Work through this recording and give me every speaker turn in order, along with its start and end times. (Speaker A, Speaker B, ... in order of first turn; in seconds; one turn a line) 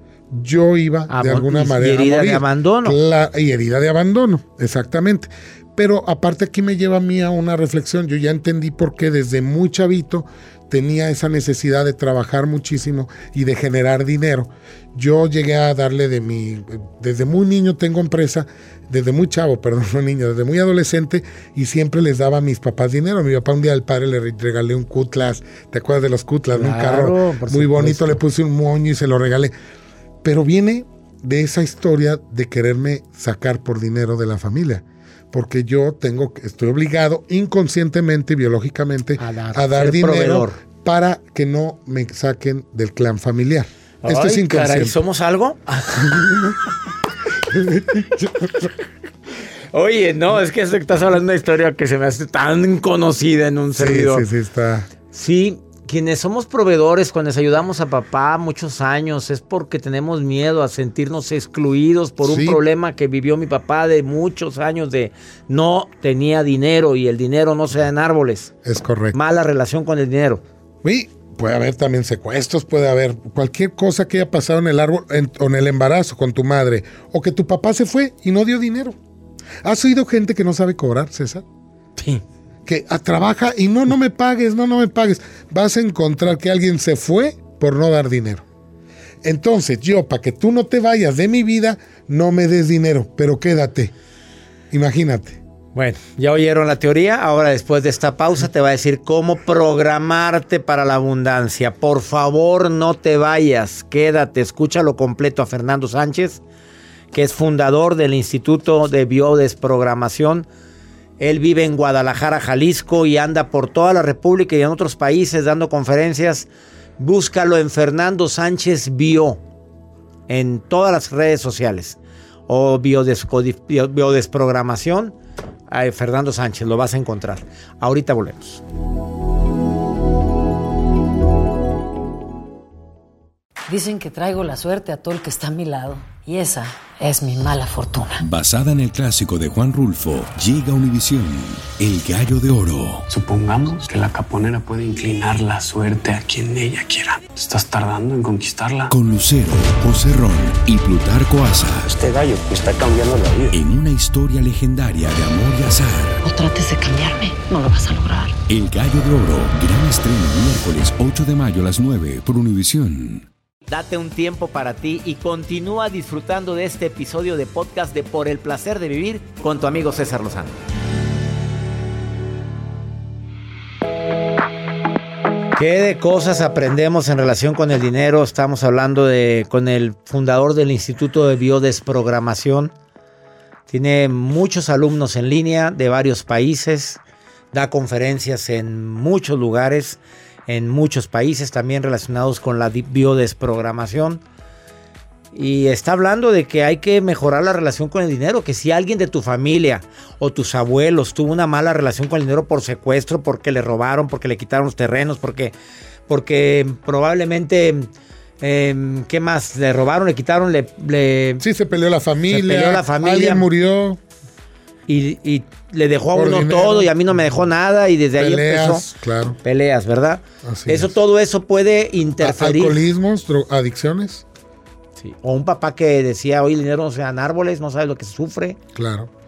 Speaker A: 0.3-29.5
Speaker B: 1.1-3.0
Speaker B: 26.5-28.2
Speaker A: 30.2-45.0
Speaker B: 39.2-40.6
Speaker B: 44.0-46.3
Speaker A: 47.5-48.7
Speaker B: 49.7-54.2
Speaker A: 53.7-54.9
Speaker B: 55.1-68.5
Speaker A: 62.2-62.6
Speaker A: 68.6-69.2
Speaker B: 69.1-70.4
Speaker A: 70.8-79.0
Speaker A: 79.6-81.4
Speaker A: 82.7-88.4
Speaker A: 89.2-93.9
Speaker A: 94.7-95.4
Speaker B: 95.7-106.4
Speaker B: 107.1-110.5
Speaker B: 111.2-119.4
Speaker B: 120.3-125.2
Speaker B: 125.7-128.6
Speaker C: 133.7-138.2
Speaker D: 138.2-143.0
Speaker E: 143.1-148.9
Speaker D: 148.9-151.9
Speaker E: 151.9-153.6
Speaker D: 153.5-156.2
Speaker C: 156.2-158.4
Speaker D: 158.5-163.3
Speaker B: 163.7-170.6
Speaker B: 175.6-182.7
Speaker B: 183.7-187.0
Speaker B: 187.5-194.2
Speaker B: 195.3-205.5
Speaker B: 206.1-207.9
Speaker B: 208.4-211.4
Speaker A: 211.4-214.0
Speaker B: 212.3-213.5
Speaker B: 214.9-218.8
Speaker A: 216.1-216.9
Speaker A: 218.2-219.4
Speaker B: 219.4-222.8
Speaker A: 220.4-220.9
Speaker A: 222.2-224.2
Speaker B: 225.0-228.6
Speaker A: 228.7-229.1